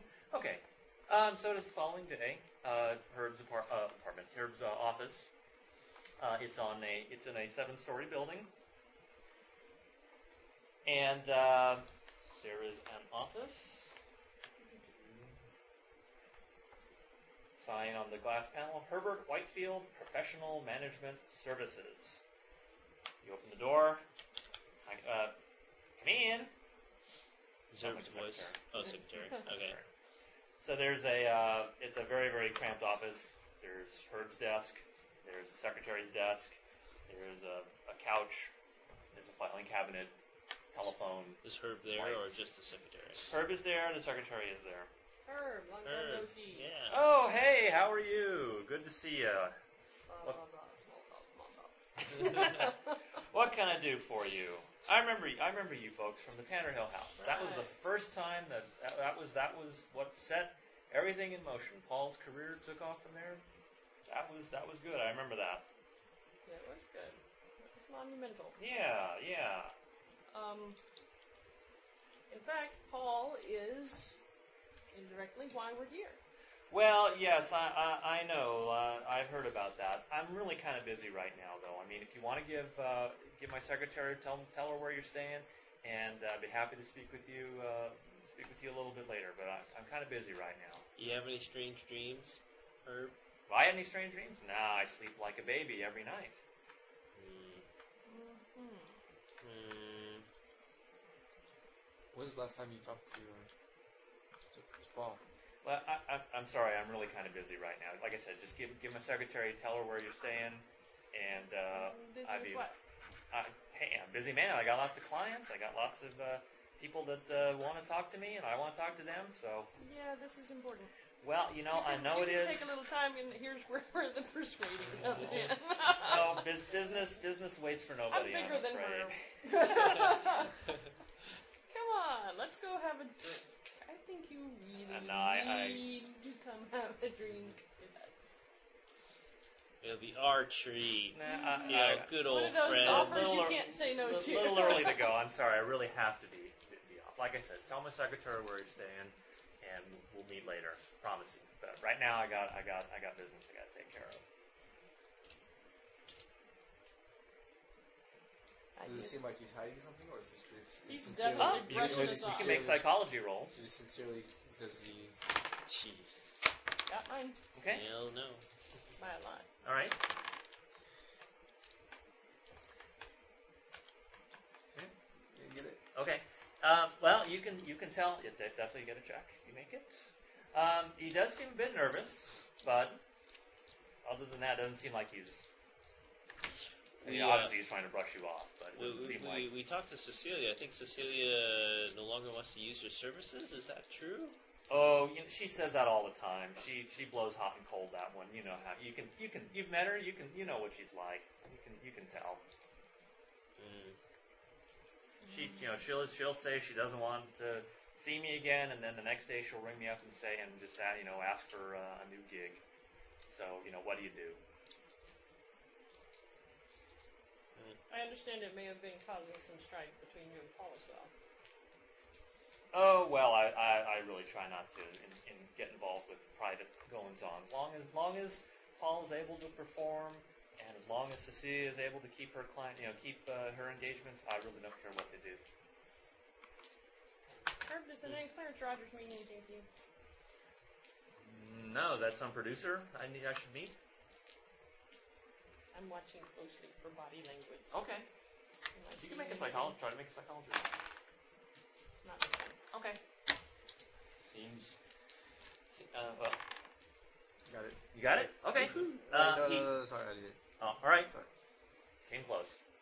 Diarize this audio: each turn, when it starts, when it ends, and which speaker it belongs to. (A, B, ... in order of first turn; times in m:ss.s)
0:00.3-0:05.3 A
0:06.2-0:08.5 A
0:10.8-0:11.9 A
0:12.4-0:14.0 A
0:14.8-0:15.4 A
0:17.5-0:22.2 A
0:23.2-0:24.0 A
0:24.9-0:25.4 A
0:26.0-0:26.5 A
0:27.7-0:29.8 B
0:27.8-0:28.6 A
0:29.4-0:29.9 A
0:30.6-0:38.5 A
0:39.1-0:40.2 A
0:40.7-0:42.4 A
0:41.4-0:43.3 B
0:43.3-0:44.9 A
0:45.2-0:46.7 C
0:45.8-0:47.0 B
0:46.9-0:49.6 A
0:50.1-0:52.8 C
0:52.1-0:52.7 A
0:53.3-1:03.4 A
0:57.2-0:57.8 C
1:04.1-1:05.7 A
1:06.5-1:08.6 C
1:08.6-1:09.7 A
1:10.3-1:10.8 C
1:12.3-1:14.2 C
1:14.9-1:16.2 C
1:16.7-1:30.9 A
1:31.0-1:33.2 B
1:33.5-1:36.4 A
1:37.2-1:37.7 B
1:38.1-1:39.0 C
1:39.4-1:40.3 B
1:42.1-1:43.5 D
1:44.5-1:45.2 D
1:45.6-1:52.7 A
1:51.7-1:52.8 C
1:53.3-1:59.7 A
1:59.8-2:00.9 C
2:01.2-2:02.7 A
2:01.7-2:06.6 C
2:04.9-2:10.2 A
2:08.1-2:10.6 C
2:11.7-2:18.1 C
2:14.9-2:15.8 A
2:19.8-2:23.5 B
2:21.1-2:34.2 A
2:21.2-2:25.2 C
2:38.8-2:39.2 C
2:38.8-2:42.9 D
2:40.9-2:42.7 C
2:41.4-2:43.7 A
2:43.5-2:45.2 D
2:45.7-2:46.3 B
2:46.9-2:47.4 C
2:47.5-2:47.8 A
2:47.7-2:48.4 B
2:49.0-2:49.5 C
2:49.6-2:50.0 A
2:55.3-2:55.8 D
2:55.9-3:03.0 A
3:04.0-3:05.5 A
3:07.0-3:07.5 B
3:07.0-3:09.5 A
3:08.8-3:14.4 B
3:14.7-3:22.4 A
3:23.6-3:24.0 B
3:25.2-3:25.7 C
3:25.3-3:32.6 A
3:33.3-3:34.4 A
3:37.9-3:41.1 C
3:42.7-3:55.4 A
3:57.6-3:59.7 C
4:01.2-4:03.8 A
4:05.7-4:07.7 C
4:07.7-4:08.1 A
4:08.8-4:09.8 C
4:09.0-4:10.7 A
4:12.0-4:12.6 C
4:12.7-4:13.0 A
4:14.2-4:14.8 A
4:15.7-4:16.4 A
4:17.5-4:20.4 D
4:17.9-4:19.8 A
4:20.6-4:21.1 A
4:22.0-4:22.6 A